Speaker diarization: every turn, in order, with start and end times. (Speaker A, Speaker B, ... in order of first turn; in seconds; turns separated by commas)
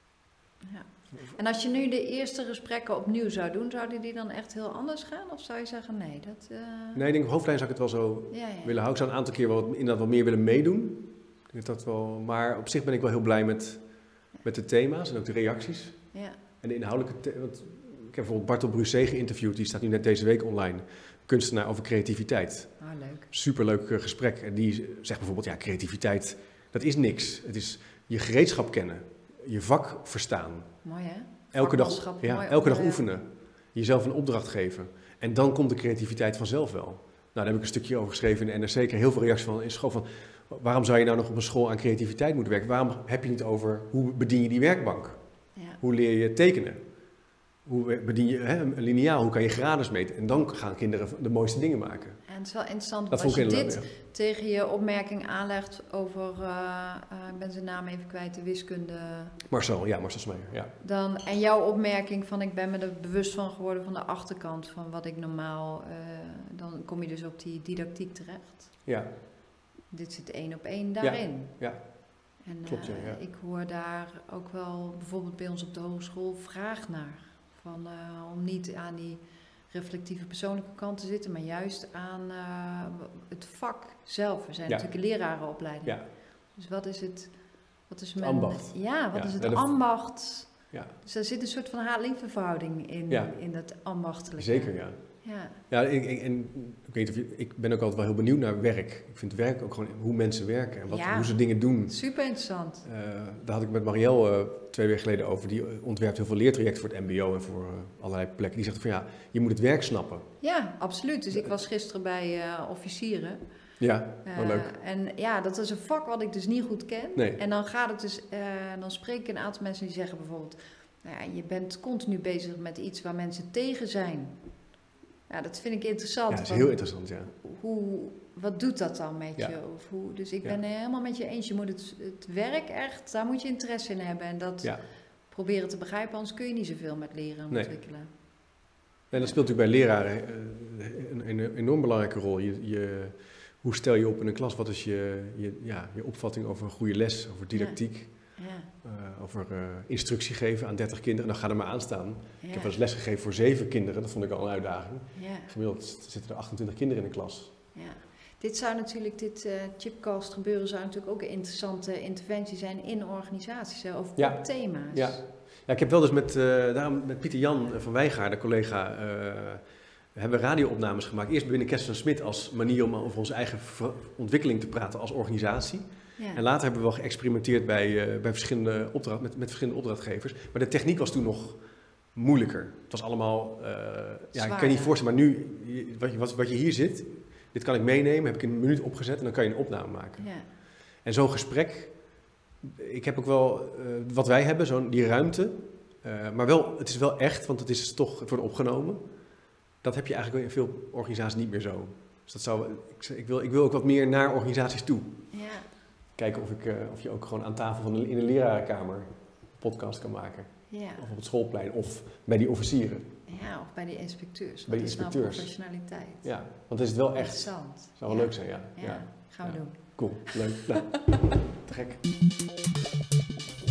Speaker A: 0.6-7.0, Speaker B: 7.0-13.8, Speaker A: 8.3-8.8, Speaker B: 14.4-16.0, Speaker A: 16.1-16.4, Speaker B: 16.6-22.7, Speaker A: 22.8-23.3, Speaker B: 23.3-30.7, Speaker A: 30.8-33.1, Speaker B: 31.5-45.2, Speaker B: 45.8-46.8, Speaker B: 47.7-52.2, Speaker A: 52.3-59.4, Speaker B: 53.1-53.9, Speaker B: 59.5-60.7, Speaker A: 60.8-68.7, Speaker A: 69.9-71.6, Speaker B: 71.0-71.8, Speaker A: 72.5-86.0, Speaker B: 72.7-73.2, Speaker A: 86.6-87.3, Speaker A: 87.9-95.6, Speaker B: 88.2-89.7, Speaker B: 93.1-93.3, Speaker B: 94.4-95.0, Speaker B: 95.7-102.0, Speaker A: 100.9-102.8, Speaker B: 102.8-110.3, Speaker A: 110.4-113.4, Speaker B: 113.8-114.7, Speaker A: 114.2-124.3, Speaker B: 117.2-117.4, Speaker A: 125.3-126.8, Speaker B: 126.3-127.3, Speaker A: 127.3-134.7, Speaker A: 135.3-138.1, Speaker B: 139.1-148.1, Speaker A: 139.1-139.4, Speaker A: 147.5-147.8, Speaker A: 148.4-148.7, Speaker B: 148.8-157.5, Speaker A: 152.4-152.8, Speaker A: 155.2-155.5, Speaker A: 157.8-165.2, Speaker B: 164.2-169.6, Speaker B: 170.2-181.6, Speaker A: 176.2-176.4, Speaker B: 182.2-190.3, Speaker A: 184.3-184.9, Speaker A: 190.2-190.4, Speaker B: 191.1-191.9, Speaker B: 192.6-199.0, Speaker B: 199.8-205.2, Speaker A: 205.3-205.7, Speaker B: 206.2-209.1, Speaker B: 209.6-213.1, Speaker A: 210.7-211.1, Speaker A: 213.3-216.3, Speaker B: 214.7-215.5, Speaker B: 216.2-222.0, Speaker A: 217.2-219.8